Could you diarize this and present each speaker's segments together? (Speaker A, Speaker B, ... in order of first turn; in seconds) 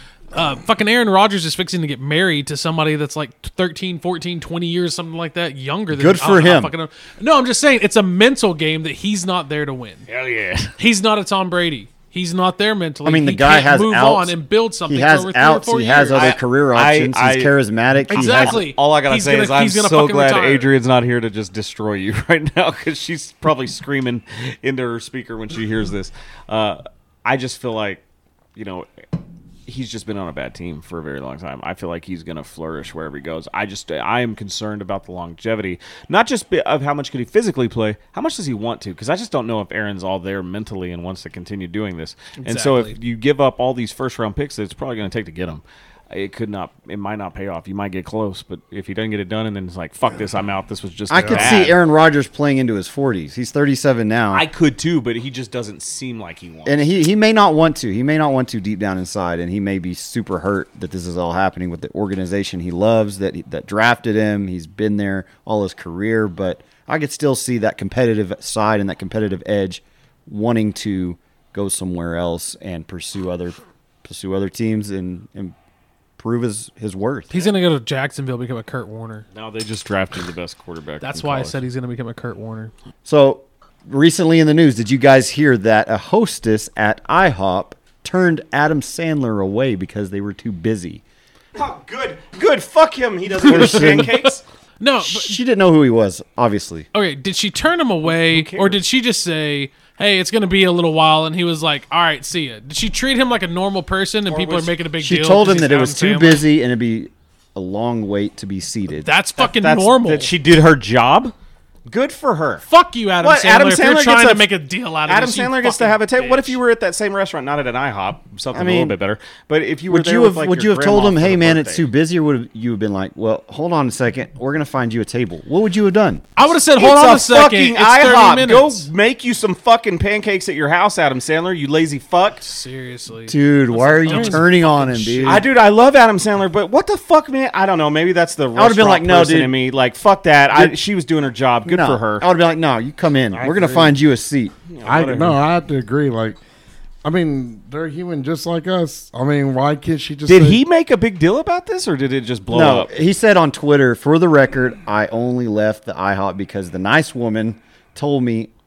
Speaker A: 0.3-10.1, 10.8-16.3, 18.1-20.7, 42.4-42.9, 77.3-79.2, 81.0-82.7, 93.5-95.4, 96.9-106.5, 109.0-110.3, 112.7-116.6, 126.3-128.9, 132.4-135.4
Speaker B: 5.9-6.7, 13.0-18.6, 51.1-54.5, 56.6-75.5, 76.2-77.3, 83.0-91.0, 93.4-94.2, 95.0-96.9, 105.0-109.1, 118.5-119.0, 119.9-126.2, 133.3-135.5, 138.5-139.6, 141.6-144.5, 152.5-158.5
Speaker C: 10.1-10.7, 16.1-17.5, 18.1-28.0, 28.5-28.9, 29.7-51.8, 54.3-56.8, 79.3-81.6, 91.5-94.4, 98.1-98.8, 104.3-104.8, 109.4-111.3, 111.9-112.6, 113.2-114.5, 115.0-121.8, 126.8-132.4, 134.1-134.3, 135.2-142.2, 144.7-145.4, 150.3-152.9
Speaker D: 51.1-51.6, 143.3-143.9, 144.8-146.4, 147.0-150.6